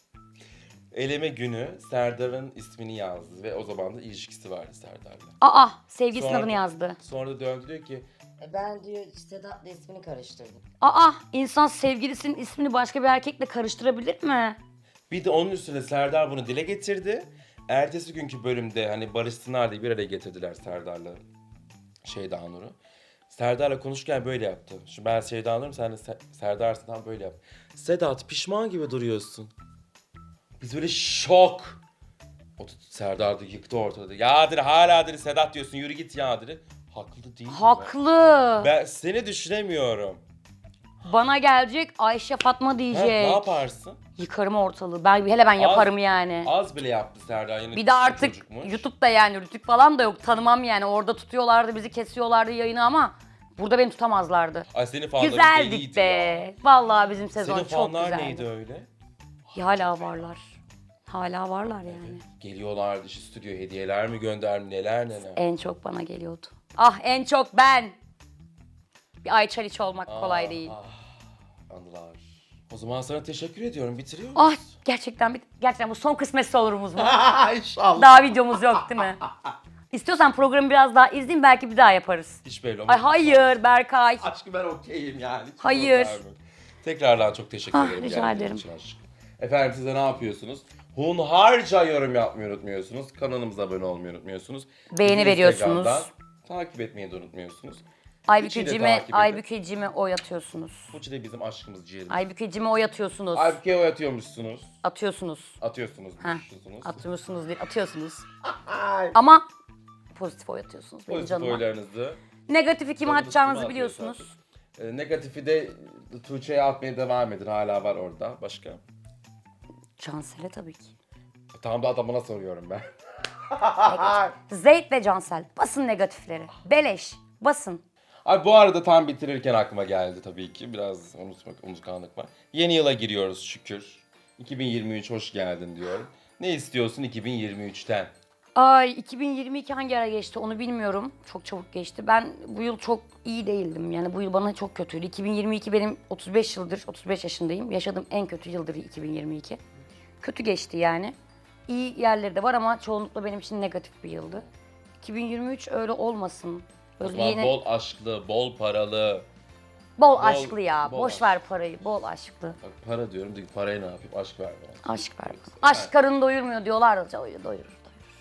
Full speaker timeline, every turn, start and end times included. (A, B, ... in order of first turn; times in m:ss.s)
0:00.9-0:05.4 A
0:05.4-0:07.0 B
0:06.1-0:08.0 A
0:08.4-0:10.6 C
0:10.8-0:14.6 B
0:15.1-0:21.2 A
0:22.0-0:22.8 A
0:23.3-0:29.5 A
0:30.6-0:31.8 A
0:32.6-0:38.0 A
0:37.5-0:38.7 B
0:38.6-0:40.2 A
0:41.0-0:43.6 B
0:42.9-0:44.0 A
0:44.2-0:46.5 B
0:45.6-0:48.9 A
0:47.8-0:54.7 B
0:54.7-0:56.5 A
0:55.2-0:58.5 B
0:57.4-0:58.9 A
0:59.5-1:00.3 A
0:59.5-1:02.2 B
1:01.8-1:05.4 A
1:05.2-1:08.0 B
1:09.2-1:10.8 B
1:10.1-1:14.7 A
1:14.3-1:17.2 B
1:17.0-1:19.3 A
1:17.9-1:19.2 B
1:19.9-1:24.3 B
1:22.4-1:23.6 A
1:24.2-1:37.8 A
1:25.6-1:26.2 B
1:27.7-1:28.6 B
1:34.9-1:36.1 B
1:38.3-1:41.0 B
1:38.4-1:39.4 A
1:40.9-1:42.3 A
1:42.1-1:43.6 B
1:43.3-1:44.8 A
1:44.8-1:45.6 B
1:45.6-1:47.0 A
1:46.2-1:48.2 B
1:48.5-1:49.1 A
1:49.1-1:49.4 B
1:50.1-1:51.6 B
1:51.1-1:52.2 A
1:52.5-1:54.3 B
1:53.0-1:58.8 A
2:00.0-2:00.9 B
2:01.5-2:04.3 A
2:03.8-2:07.8 B
2:08.2-2:18.1 A
2:18.6-2:29.6 B
2:30.2-2:31.1 B
2:31.7-2:34.5 B
2:35.0-2:37.6 B
2:37.0-2:39.3 A
2:40.0-2:42.6 B
2:40.1-2:41.4 A
2:42.6-2:45.9 A
2:44.8-2:48.0 B